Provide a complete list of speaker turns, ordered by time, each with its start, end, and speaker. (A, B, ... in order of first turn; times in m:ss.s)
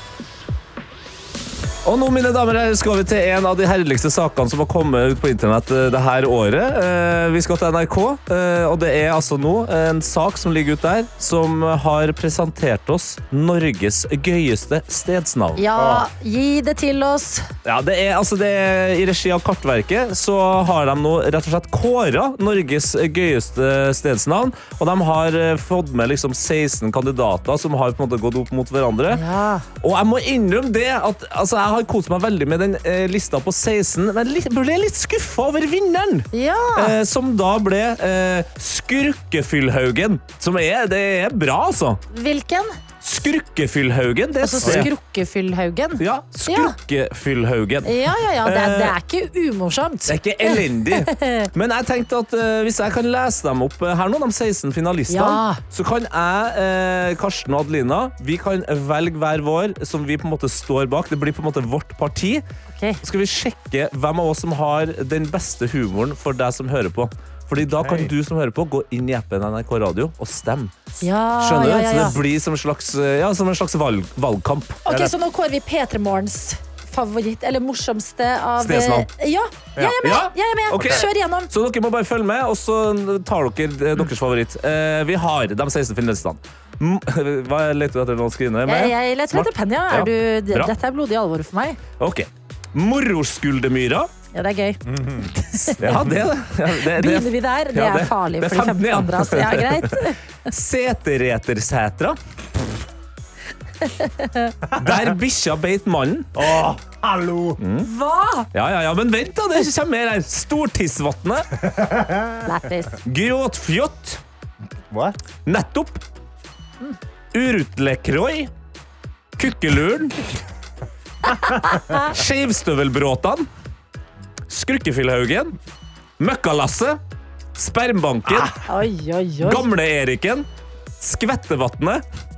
0:01.8-0:15.6 A
0:15.6-0:17.5 B
0:15.8-0:16.1 C
0:17.6-0:29.2 A
0:29.1-0:29.6 B
0:29.8-0:42.0 A
0:36.3-0:36.9 B
0:42.1-0:42.8 B
0:43.0-0:44.9 A
0:44.4-0:46.7 B
0:46.0-0:49.0 A
0:47.8-0:51.5 B
0:50.1-1:02.4 A
0:55.1-0:55.6 B
1:02.7-1:03.0 B
1:03.0-1:10.7 A
1:07.6-1:08.1 C
1:11.0-1:12.2 B
1:11.4-1:15.0 A
1:14.8-1:21.5 B
1:18.6-1:19.1 A
1:20.0-1:30.7 A
1:28.6-1:31.8 B
1:32.0-1:34.1 A
1:34.3-1:34.8 B
1:34.9-1:35.3 C
1:35.4-1:36.0 B
1:35.6-1:42.2 A
1:36.9-1:40.2 B
1:44.0-1:44.5 B
1:44.8-1:46.3 A
1:46.3-1:47.6 C
1:47.6-1:47.9 A
1:47.8-1:48.5 B
1:48.5-1:51.5 A
1:51.6-1:52.5 C
1:52.4-1:53.0 B
1:53.0-1:54.2 A
1:54.9-1:55.2 C
1:55.4-1:56.0 A
1:57.3-1:58.5 A
1:59.4-2:00.2 A
2:01.4-2:02.0 B
2:01.9-2:03.5 A
2:04.5-2:05.6 A
2:06.2-2:07.0 A
2:07.6-2:08.6 A
2:08.6-2:09.6 B
2:09.4-2:10.4 A
2:11.0-2:12.0 A